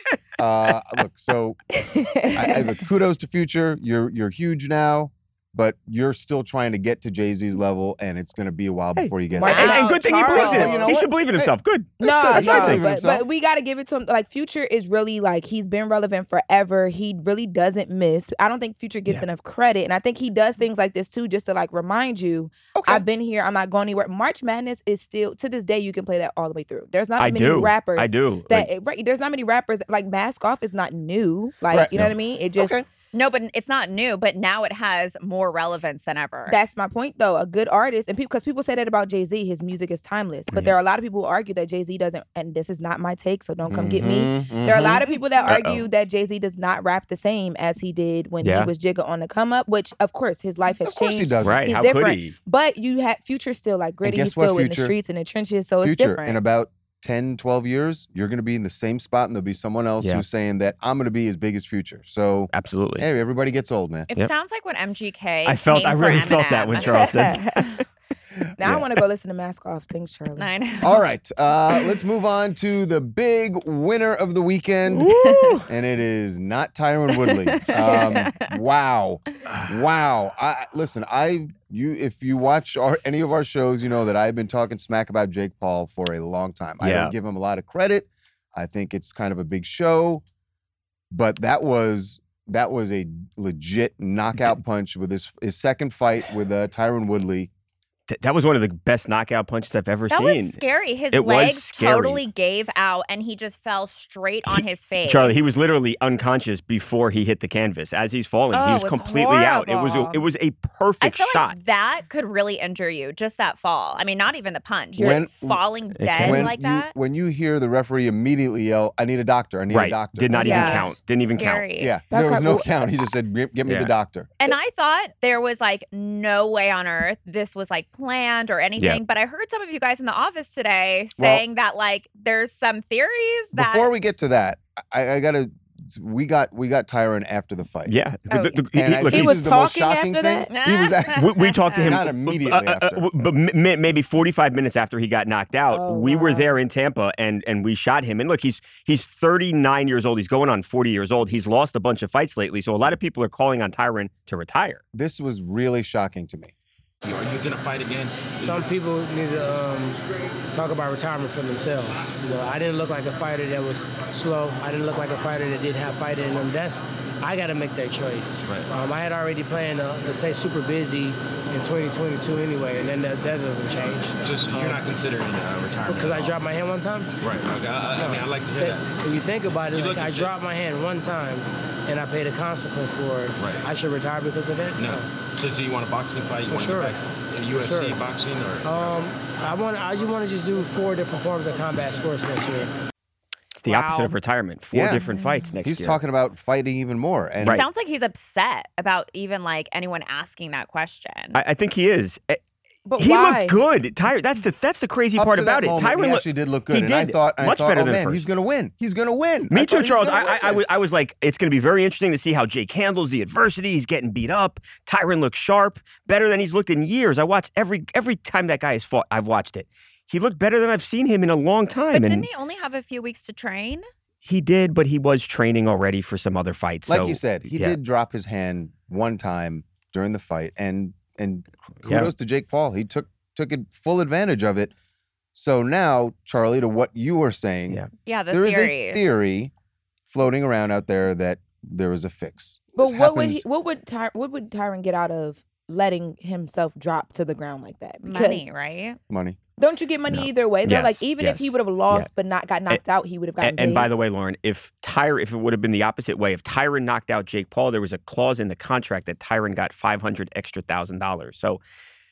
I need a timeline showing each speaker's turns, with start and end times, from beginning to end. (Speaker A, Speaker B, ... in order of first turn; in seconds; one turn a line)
Speaker A: 0.4-1.8
Speaker B: 1.8-2.6
Speaker A: 2.3-11.2
Speaker C: 9.0-12.8
Speaker B: 9.3-11.0
Speaker D: 9.4-10.8
Speaker B: 12.0-32.7
Speaker A: 12.0-13.2
Speaker A: 22.7-23.0
Speaker C: 27.2-28.7
Speaker A: 31.7-31.9
Speaker A: 32.5-32.9
Speaker D: 33.1-36.6
Speaker B: 36.5-56.4
Speaker A: 43.7-45.0
Speaker C: 44.7-45.9
Speaker C: 48.4-48.7
Speaker A: 50.8-51.9
Speaker C: 51.4-52.4
Speaker A: 54.0-54.9
Speaker A: 55.8-64.1
Speaker C: 62.5-63.0
Speaker D: 64.1-66.8
Speaker C: 65.5-67.8
Speaker B: 66.8-67.8
Speaker B: 68.6-70.5
Speaker D: 70.4-71.0
Speaker A: 70.8-90.2
Speaker C: 74.9-75.7
Speaker D: 75.1-75.6
Speaker D: 77.2-78.5
Speaker C: 86.8-87.1
Speaker A: 91.1-97.5
Speaker C: 98.1-100.6
Speaker D: 100.1-105.6
Speaker C: 101.1-102.2
Speaker C: 104.5-111.6
Speaker D: 108.5-110.2
Speaker D: 111.0-116.9
Speaker B: 115.0-115.2
Speaker A: 115.0-115.6
Speaker C: 116.0-116.5
Speaker A: 116.2-120.9
Speaker C: 119.7-121.6
Speaker D: 120.4-121.9
Speaker B: 120.4-120.8
Speaker A: 121.8-124.3
Speaker B: 122.1-122.7
Speaker C: 123.7-123.9
Speaker D: 124.4-133.9
Speaker A: 131.2-131.4
Speaker A: 133.5-137.9
Speaker C: 137.9-139.4
Speaker D: 138.3-138.6
Speaker A: 138.7-143.0
Speaker B: 139.1-140.5
Speaker D: 140.5-142.0
Speaker C: 141.1-154.8
Speaker B: 145.7-146.5
Speaker A: 154.9-156.5
Speaker E: 157.0-158.7
Speaker F: 158.4-174.8
Speaker E: 174.2-176.4
Speaker F: 175.8-177.2
Speaker E: 177.2-179.0
Speaker F: 177.9-185.1
Speaker E: 179.7-180.3
Speaker E: 183.4-183.7
Speaker E: 184.8-189.0
Speaker F: 186.5-186.9
Speaker F: 187.5-188.0
Speaker F: 188.6-192.7
Speaker D: 193.6-194.2
Speaker C: 193.6-196.0
Speaker A: 194.7-195.1
Speaker A: 195.6-197.6
Speaker D: 197.4-201.4
Speaker C: 201.3-202.4
Speaker B: 202.9-203.6
Speaker C: 203.0-208.2
Speaker A: 205.2-210.7
Speaker C: 209.5-222.3
Speaker D: 221.9-223.8
Speaker C: 224.2-227.8
Speaker A: 226.9-234.7
Speaker C: 231.8-232.1
Speaker A: 235.3-239.5
Speaker D: 238.0-239.2
Speaker A: 240.1-243.4
Speaker B: 242.8-248.5
Speaker D: 248.0-249.0
Speaker A: 249.1-249.4
Speaker B: 249.6-253.9
Speaker C: 250.1-252.1
Speaker C: 253.4-261.6